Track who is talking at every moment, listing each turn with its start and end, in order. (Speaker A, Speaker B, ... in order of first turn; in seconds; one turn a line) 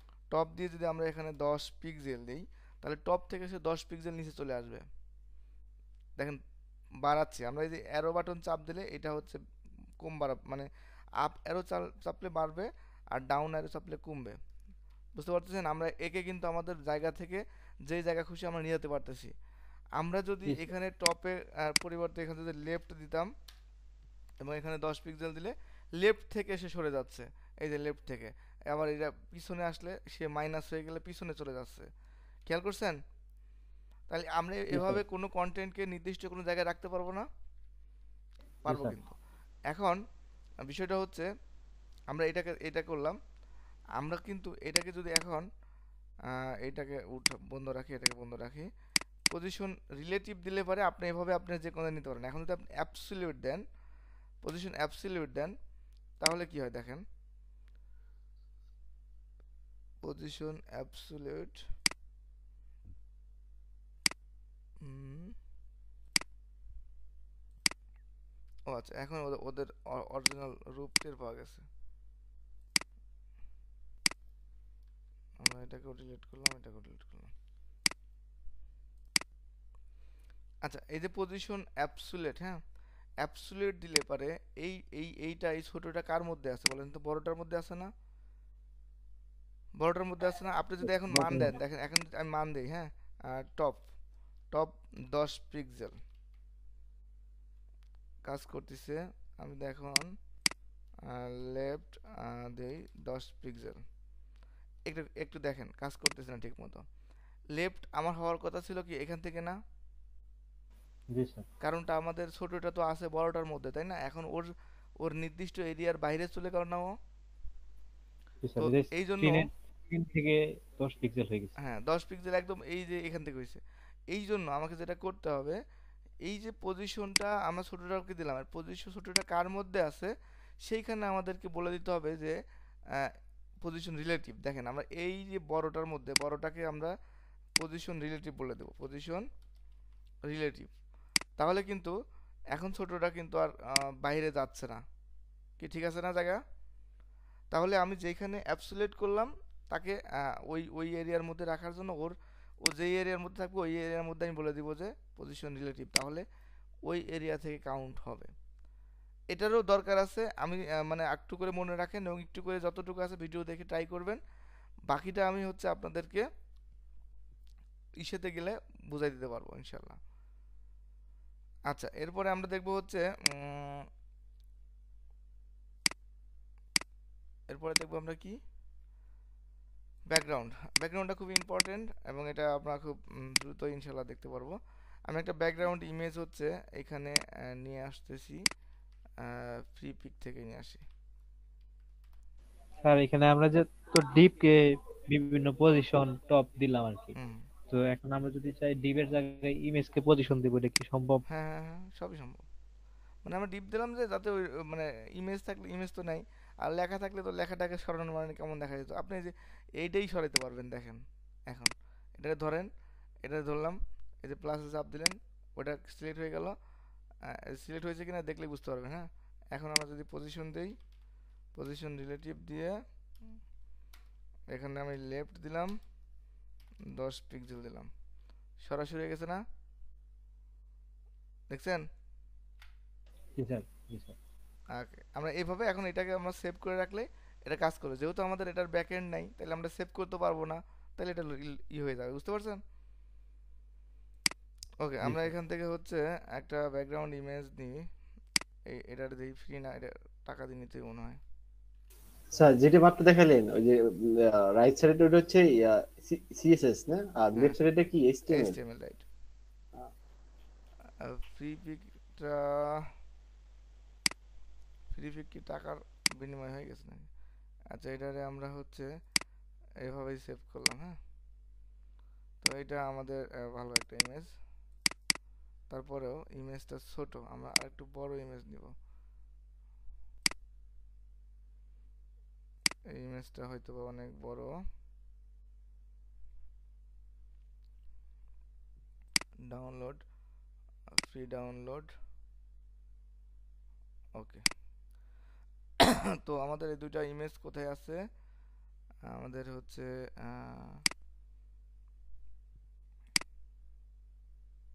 Speaker A: 0.3-4.8
Speaker A: 7.0-9.4
Speaker A: 10.0-10.7
Speaker A: 11.2-14.4
Speaker A: 15.2-19.3
Speaker A: 20.0-23.3
Speaker A: 24.4-31.9
Speaker A: 32.5-33.0
Speaker A: 34.1-37.2
Speaker B: 34.7-35.0
Speaker B: 38.7-38.9
Speaker A: 38.7-39.2
Speaker A: 39.7-40.0
Speaker A: 40.7-41.3
Speaker A: 42.1-43.2
Speaker A: 44.0-45.5
Speaker A: 46.3-48.7
Speaker A: 49.3-53.6
Speaker A: 54.4-55.5
Speaker A: 56.2-57.0
Speaker A: 60.0-61.6
Speaker A: 64.8-65.3
Speaker A: 68.7-71.7
Speaker A: 75.4-77.3
Speaker A: 80.6-82.6
Speaker A: 83.2-87.9
Speaker A: 89.8-93.8
Speaker B: 91.1-91.6
Speaker A: 94.5-96.0
Speaker A: 98.2-100.1
Speaker A: 101.1-103.8
Speaker A: 104.9-106.8
Speaker A: 107.5-109.5
Speaker B: 111.1-111.5
Speaker A: 111.6-117.0
Speaker B: 118.4-121.5
Speaker A: 118.6-119.5
Speaker A: 121.6-123.6
Speaker A: 124.1-125.6
Speaker A: 126.2-130.1
Speaker A: 130.6-132.3
Speaker A: 133.6-136.9
Speaker A: 137.6-139.2
Speaker A: 140.3-140.7
Speaker A: 141.4-141.9
Speaker A: 142.5-144.8
Speaker A: 145.6-146.4
Speaker A: 147.5-156.2
Speaker A: 156.9-158.3
Speaker A: 159.3-164.2
Speaker A: 164.9-166.2
Speaker A: 168.0-170.0
Speaker A: 171.7-173.8
Speaker A: 177.5-178.4
Speaker A: 180.1-184.6
Speaker A: 185.1-188.4
Speaker A: 189.2-190.8
Speaker B: 192.8-197.2
Speaker B: 197.7-201.2
Speaker A: 201.3-202.4
Speaker A: 203.2-212.7
Speaker A: 213.2-216.6
Speaker A: 217.3-220.8
Speaker A: 221.6-222.8
Speaker A: 224.5-225.8
Speaker A: 226.9-227.9
Speaker A: 228.6-229.4
Speaker A: 231.5-231.8
Speaker B: 233.4-234.2
Speaker A: 234.8-242.6
Speaker A: 244.8-247.8
Speaker A: 248.8-251.2
Speaker C: 252.3-258.6
Speaker A: 258.3-259.1
Speaker A: 261.1-262.8
Speaker A: 264.9-267.1
Speaker A: 267.8-268.9
Speaker A: 269.9-270.9
Speaker A: 272.4-274.3
Speaker A: 275.7-278.7
Speaker A: 282.9-284.5
Speaker A: 289.5-290.0
Speaker A: 291.0-291.9
Speaker A: 294.2-294.4
Speaker A: 295.9-298.0
Speaker A: 299.1-300.8